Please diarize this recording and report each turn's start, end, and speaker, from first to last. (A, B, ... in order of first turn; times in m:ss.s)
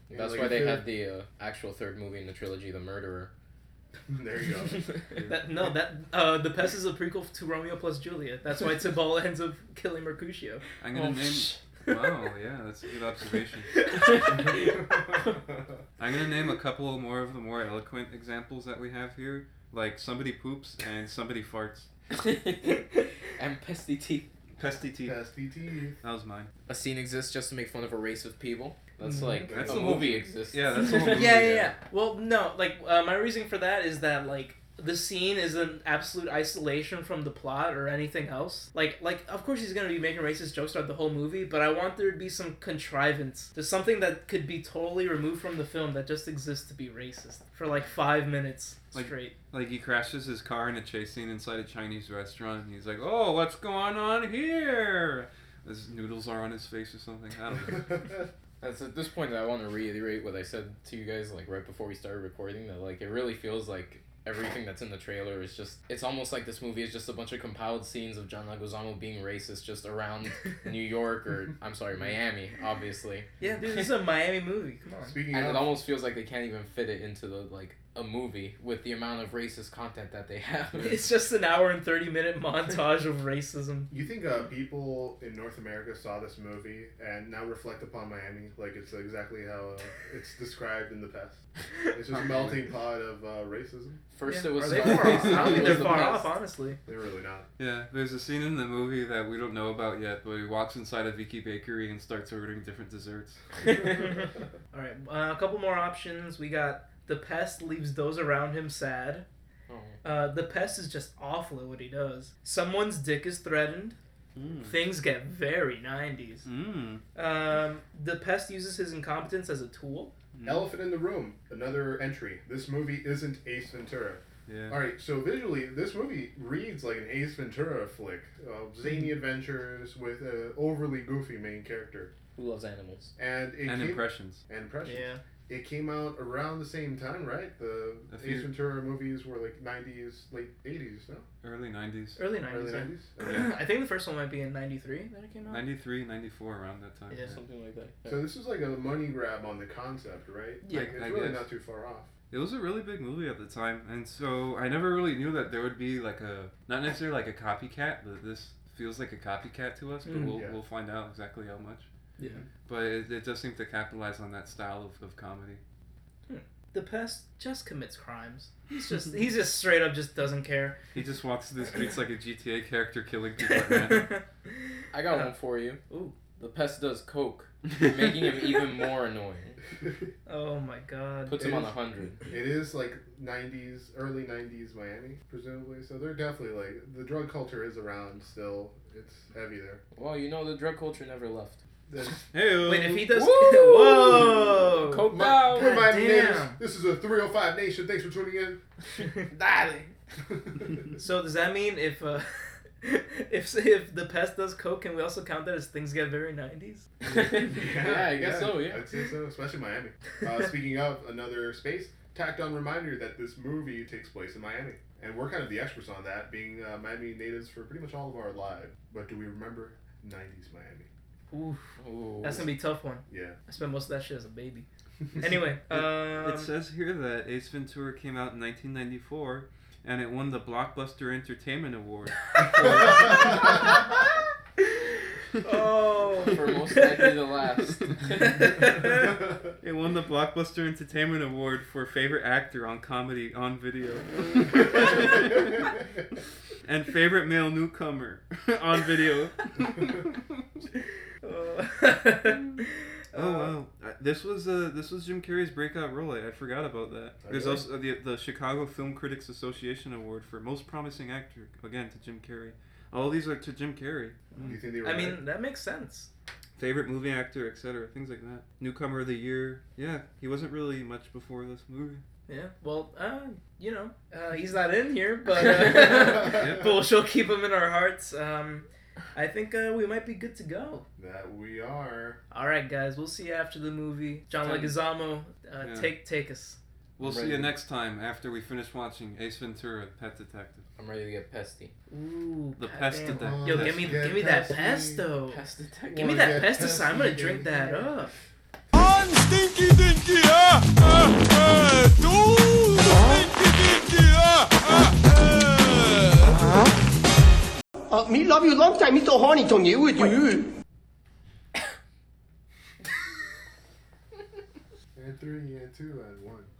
0:00.1-0:00.9 A
0:00.1-0:03.3 B
0:04.1-0:04.9 A
0:05.2-0:10.6 C
0:10.8-0:13.7 D
0:10.9-0:11.6 B
0:13.9-0:14.3 C
0:14.1-0:14.6 B
0:14.6-0:15.2 A
0:16.0-0:21.9 D
0:22.1-0:24.3 B
0:24.6-0:25.2 D
0:25.0-0:26.0 A
0:26.0-0:26.5 D
0:26.7-0:31.7 B
0:29.0-0:29.5 C
0:29.4-0:30.2 A
0:29.5-0:31.6 D
0:30.9-0:49.3 C
0:48.9-0:58.0 D
0:58.6-1:13.9 B
1:13.4-1:15.2 C
1:15.0-1:15.8 A
1:15.3-1:21.1 B
1:20.8-1:23.9 C
1:23.9-1:31.4 A
1:31.9-1:34.0 A
1:34.1-1:36.3 B
1:34.2-1:36.8 C
1:34.9-1:35.6 D
1:35.4-1:35.8 A
1:36.8-1:37.4 A
1:37.6-1:43.4 D
1:43.7-1:49.2 C
1:49.7-1:50.0 B
1:50.0-1:54.0 C
1:54.4-1:54.8 D
1:54.6-1:56.4 C
1:56.4-1:57.0 D
1:57.1-2:00.1 C
2:00.3-2:00.7 D
2:00.4-2:12.1 A
2:04.5-2:04.8 D
2:12.4-2:13.1 B
2:13.2-2:21.2 A
2:13.6-2:14.4 D
2:14.8-2:15.2 C
2:18.1-2:18.5 D
2:21.4-2:22.2 D
2:22.2-2:25.6 C
2:22.4-2:23.5 A
2:23.2-2:23.5 D
2:25.5-2:27.4 D
2:27.2-2:28.3 B
2:28.1-2:32.1 A
2:30.6-2:31.0 C
2:30.7-2:31.5 D
2:32.3-2:41.9 D
2:40.0-2:40.4 C
2:40.3-2:40.6 A
2:42.6-2:45.6 D
2:46.3-2:50.8 C
2:50.9-2:54.1 D
2:53.4-2:54.2 C
2:54.9-2:55.8 B
2:55.9-2:56.1 C
2:56.4-2:59.6 B
3:00.3-3:01.5 C
3:01.3-3:02.2 B
3:01.4-3:09.8 A
3:09.9-3:11.6 B
3:11.9-3:12.3 A
3:12.3-3:13.1 D
3:12.6-3:16.6 C
3:13.1-3:15.8 B
3:15.1-3:18.6 A
3:19.3-3:19.9 B
3:20.4-3:20.9 A
3:21.0-3:26.9 C
3:27.0-3:28.8 B
3:27.1-3:40.9 A
3:41.3-3:44.6 C
3:41.8-3:42.5 B
3:43.1-3:43.4 A
3:45.2-3:46.5 C
3:45.7-3:53.7 D
3:52.4-3:53.8 C
3:52.6-3:53.5 A
3:55.4-3:57.2 C
3:56.2-3:58.6 B
3:58.2-3:59.2 C
3:59.6-4:05.7 D
4:06.6-4:10.2 D
4:11.2-4:13.5 C
4:13.1-4:24.6 D
4:17.2-4:17.6 A
4:24.3-4:26.1 C
4:24.4-4:25.2 A
4:26.6-4:32.0 D
4:32.3-4:40.8 C
4:36.1-4:36.7 D
4:41.0-4:42.2 A
4:42.3-4:46.6 C
4:44.4-4:44.7 D
4:45.6-4:45.9 D
4:47.0-4:50.6 D
4:47.0-4:47.5 B
4:50.8-4:51.7 B
4:51.9-4:55.4 C
4:52.6-4:53.9 D
4:53.1-4:55.0 A
4:55.3-4:56.5 B
4:55.9-4:58.0 A
4:56.0-4:58.1 C
4:58.7-5:06.6 E
5:07.9-5:10.5 F
5:14.9-5:16.5 A